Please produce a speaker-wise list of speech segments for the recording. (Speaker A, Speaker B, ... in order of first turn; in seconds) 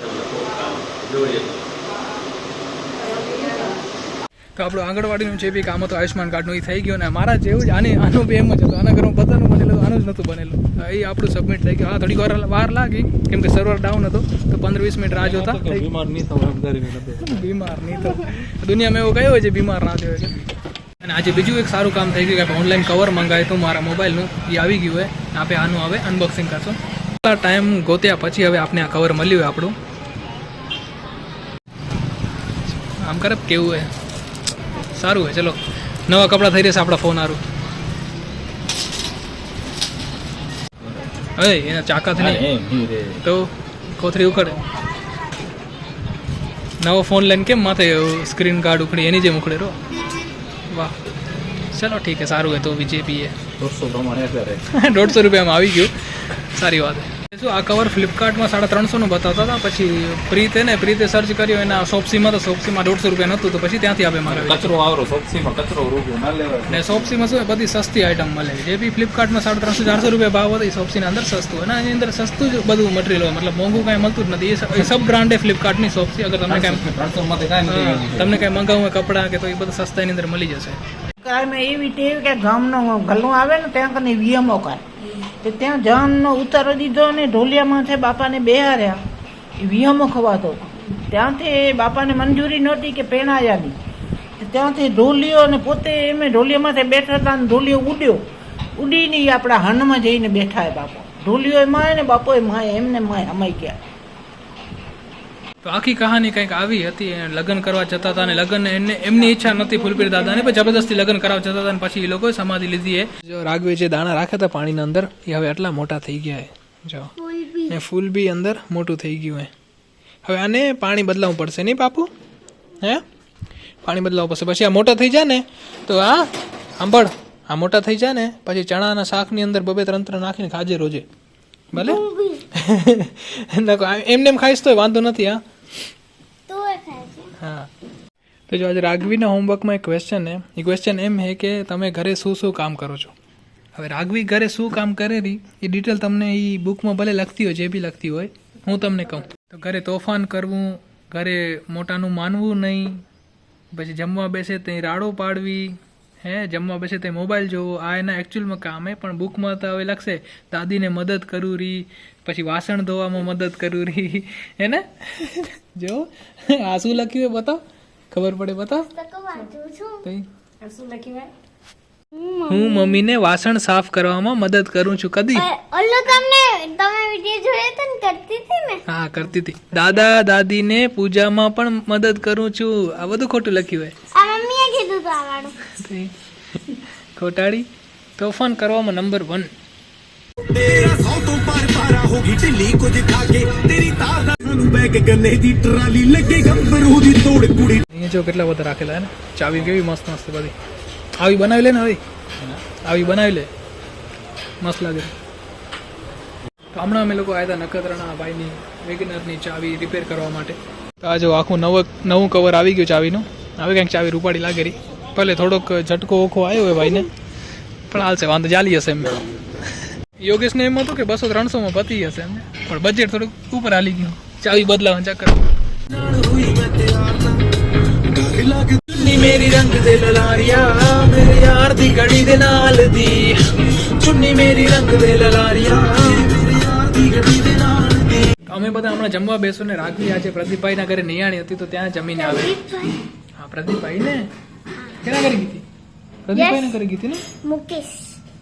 Speaker A: 0.4-1.4, 15.1-17.4, 42.2-43.2, 53.6-54.6, 64.3-66.9, 76.5-78.3
Speaker B: 4.6-15.9, 17.2-20.5, 21.0-29.8, 32.8-33.9, 34.9-37.4, 41.4-42.5, 43.2-44.6, 46.8-49.8, 50.7-51.0, 51.7-53.3, 54.7-64.8, 66.7-76.9, 77.7-80.8, 105.6-117.1, 117.7-119.5, 120.2-122.1, 123.8-131.1, 131.7-132.0, 132.6-135.4, 137.4-137.7, 138.5-143.1, 143.8-153.0, 153.7-168.9, 172.5-175.5, 178.9-183.9, 185.7-187.7, 188.2-189.5, 197.9-200.5, 201.2-202.0, 202.8-203.5, 204.6-205.1, 206.7-217.1, 217.9-225.4, 228.9-236.3, 238.4-242.5, 243.4-244.3, 245.0-245.7, 246.3-247.2
Speaker C: 81.2-84.8, 85.4-89.0, 89.6-93.8, 94.4-98.2, 98.8-103.8
Speaker D: 117.2-117.8, 131.7-132.5, 136.5-137.3, 168.9-170.1, 172.1-173.0, 175.3-178.8, 184.1-185.6, 242.2-243.0, 246.3-246.8, 247.4-248.2
Speaker E: 190.5-197.8, 225.9-227.4, 228.0-228.8, 235.9-238.2